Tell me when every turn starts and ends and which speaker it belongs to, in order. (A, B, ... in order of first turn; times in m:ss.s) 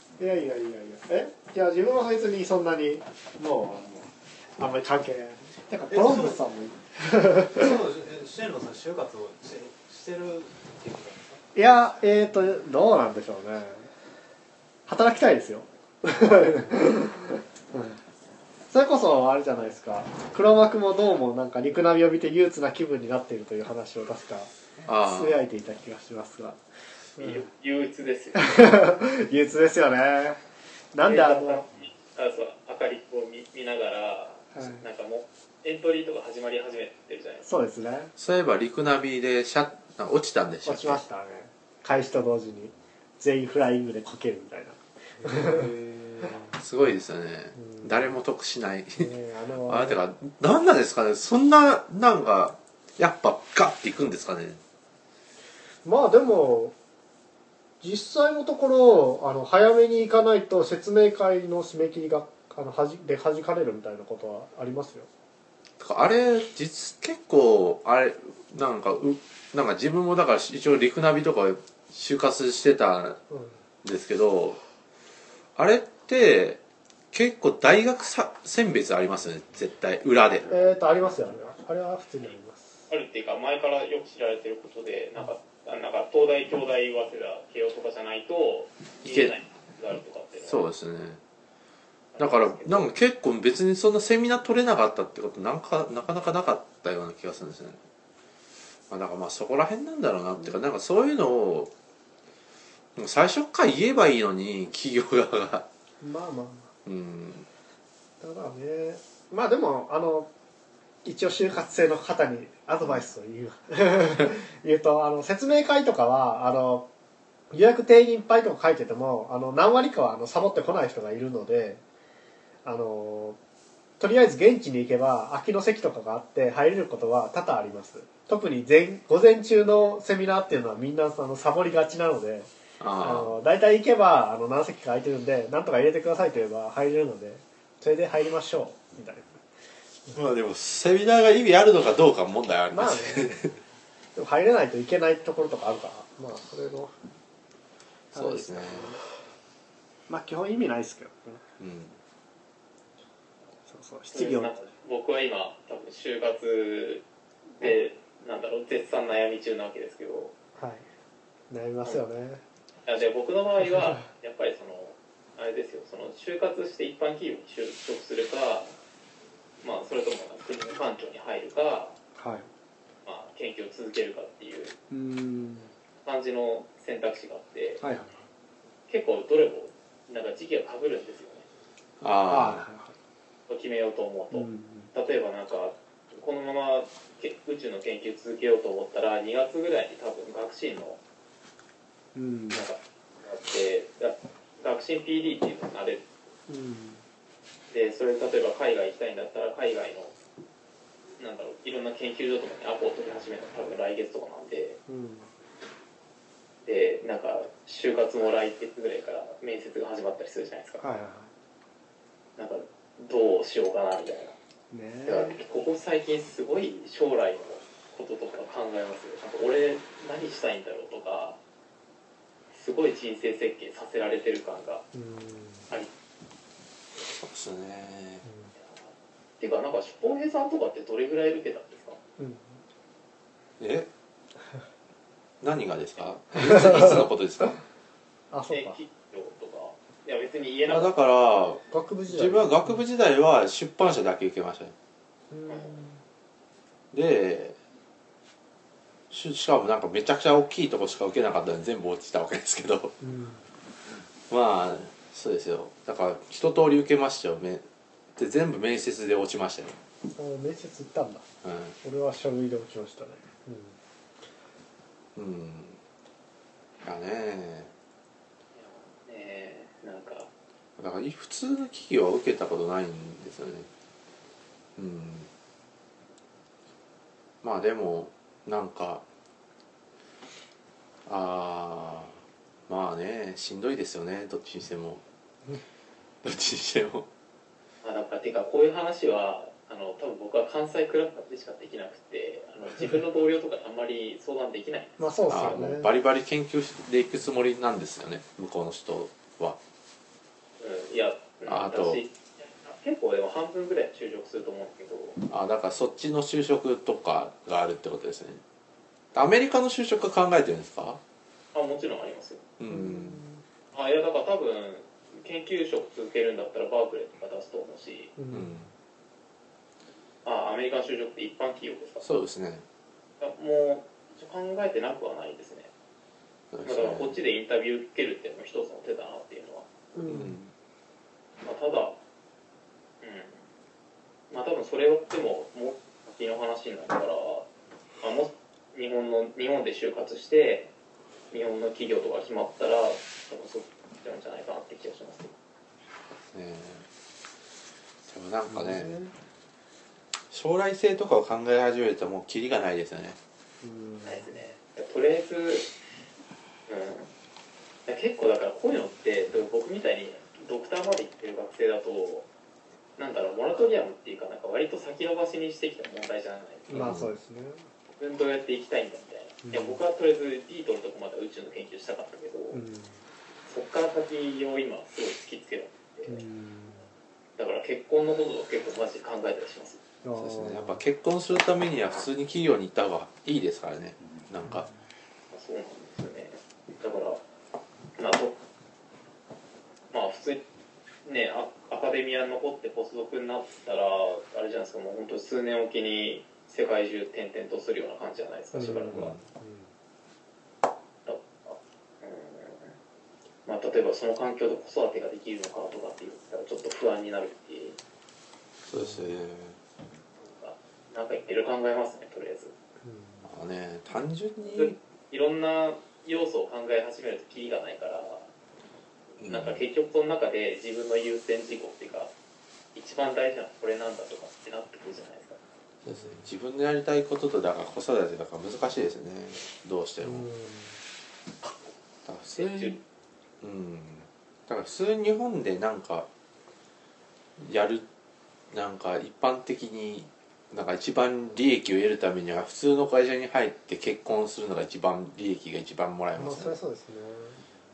0:00.2-0:07.8 A
0:05.9-0:06.4 B
0:07.5-0:11.5 B
0:11.6-0:13.9 A
0:14.9-0:18.0 A
0:18.7-0:24.5 A
0:24.8-0:25.4 C
0:25.0-0:26.6 A
0:27.2-0:27.5 A
0:27.2-0:28.6 D
0:28.4-0:30.4 A
0:30.9-0:31.6 A
0:31.0-0:37.5 D
0:34.5-0:34.8 A
0:37.4-0:38.1 A
0:38.2-0:41.0 C
0:40.6-0:46.4 A
0:45.4-0:49.1 C
0:47.6-0:48.1 A
0:49.0-0:50.0 A
0:49.6-0:54.6 C
0:55.8-0:56.8 A
0:57.8-1:05.1 A
1:05.8-1:13.2 C
1:13.3-1:13.6 A
1:13.8-1:14.6 C
1:15.6-1:16.6 C
1:17.1-1:20.6 C
1:20.5-1:22.9 A
1:22.9-1:30.6 D
1:29.1-1:29.3 C
1:30.4-1:31.2 C
1:32.1-1:32.9 D
1:32.2-1:37.8 C
1:38.9-1:41.7 C
1:43.0-1:45.7 C
1:46.0-1:46.7 A
1:46.8-1:47.5 C
1:48.2-1:50.3 A
1:51.0-1:56.9 A
1:57.5-2:01.8 A
2:02.6-2:03.4 A
2:04.0-2:12.5 A
2:12.8-2:13.4 C
2:13.0-2:19.4 A
2:20.1-2:23.5 C
2:22.7-2:23.6 A
2:24.2-2:26.9 A
2:28.1-2:29.0 C
2:28.1-2:29.0 A
2:30.1-2:31.4 A
2:31.6-2:32.0 C
2:33.7-2:34.6 A
2:34.1-2:37.0 D
2:37.6-2:40.3 D
2:40.6-2:40.8 A
2:41.5-2:42.4 A
2:42.9-2:48.7 D
2:49.6-2:52.0 D
2:52.2-2:52.5 A
2:53.0-2:54.8 D
2:54.9-2:55.7 A
2:56.0-2:57.8 D
2:57.8-2:58.2 A
2:58.9-3:01.5 D
3:02.0-3:02.6 C
3:02.3-3:03.0 A
3:03.5-3:11.0 D
3:04.3-3:04.9 A
3:12.1-3:12.6 A
3:12.5-3:16.0 D
3:16.5-3:17.0 A
3:17.7-3:20.1 D
3:21.2-3:24.8 D
3:24.9-3:25.3 A
3:26.6-3:30.8 D
3:30.8-3:31.3 A
3:32.4-3:34.4 D
3:34.7-3:35.4 A
3:35.1-3:41.4 D
3:42.5-3:44.8 D
3:44.9-3:45.7 A
3:47.1-3:48.2 C
3:48.2-3:48.5 A
3:48.6-3:52.0 D
3:52.2-3:52.6 A
3:53.6-3:53.9 C
3:55.4-3:57.6 C
3:56.4-3:57.1 A
3:58.3-3:58.8 A
3:58.5-4:01.0 D
4:00.7-4:04.7 C
4:01.7-4:02.8 A
4:05.3-4:06.0 A
4:06.9-4:07.6 C
4:09.1-4:12.9 C
4:13.0-4:13.4 A
4:13.9-4:17.6 C
4:18.2-4:19.8 C
4:20.1-4:21.2 A
4:21.4-4:21.8 C
4:21.8-4:23.8 A
4:25.2-4:25.8 C
4:26.8-4:27.7 C
4:28.6-4:30.3 D
4:30.8-4:33.7 C
4:34.8-4:35.3 C
4:37.4-4:39.0 C
4:41.1-4:42.2 C
4:42.7-4:45.0 C
4:46.2-4:47.1 C
4:47.8-4:55.1 D
4:55.0-4:55.9 A
4:55.3-4:59.6 C
5:00.6-5:05.2 D
5:01.5-5:02.0 C
5:05.3-5:08.4 C
5:09.2-5:11.0 C
5:11.5-5:12.4 D
5:12.6-5:13.2 C
5:12.7-5:13.4 A
5:13.7-5:18.1 D
5:18.2-5:18.5 A
5:18.3-5:18.7 C
5:20.2-5:22.0 D
5:22.0-5:22.6 C
5:23.2-5:25.7 D
5:26.5-5:27.2 C
5:26.6-5:29.7 D
5:30.0-5:30.4 A
5:30.0-5:30.5 C
5:31.4-5:32.0 D
5:33.0-5:33.4 D
5:34.3-5:37.5 D
5:38.0-5:40.7 D
5:41.3-5:45.3 D
5:46.3-5:46.9 C
5:48.1-5:48.9 C
5:48.5-5:49.1 A
5:50.3-5:53.2 C
5:53.6-5:54.3 A
5:54.0-5:55.7 D
5:56.7-5:57.1 D
5:57.9-6:02.3 D
6:03.0-6:06.8 D
6:06.7-6:07.6 A
6:06.7-6:07.1 C
6:08.0-6:12.6 D
6:09.4-6:09.8 A
6:12.5-6:13.0 A
6:13.5-6:16.2 D
6:16.1-6:16.9 A
6:17.4-6:19.8 D
6:20.0-6:20.8 A
6:20.2-6:24.7 C
6:25.3-6:27.2 D
6:28.0-6:28.4 D
6:29.9-6:30.4 D
6:31.0-6:39.2 D
6:38.5-6:39.7 A
6:38.9-6:39.2 C
6:41.1-6:42.7 D
6:43.4-6:47.8 D
6:48.7-6:49.6 C
6:48.7-6:49.1 A
6:50.2-6:52.5 D
6:52.8-6:53.2 A
6:53.2-6:54.8 C
6:54.5-6:58.3 D
6:59.2-7:02.1 D
6:59.2-6:59.6 C
7:02.8-7:05.4 D
7:05.8-7:10.3 C
7:05.9-7:06.2 A
7:10.0-7:10.8 A
7:12.1-7:12.8 C
7:12.4-7:12.8 D
7:13.4-7:16.1 C
7:17.4-7:17.8 C
7:18.5-7:26.6 C
7:26.2-7:27.4 A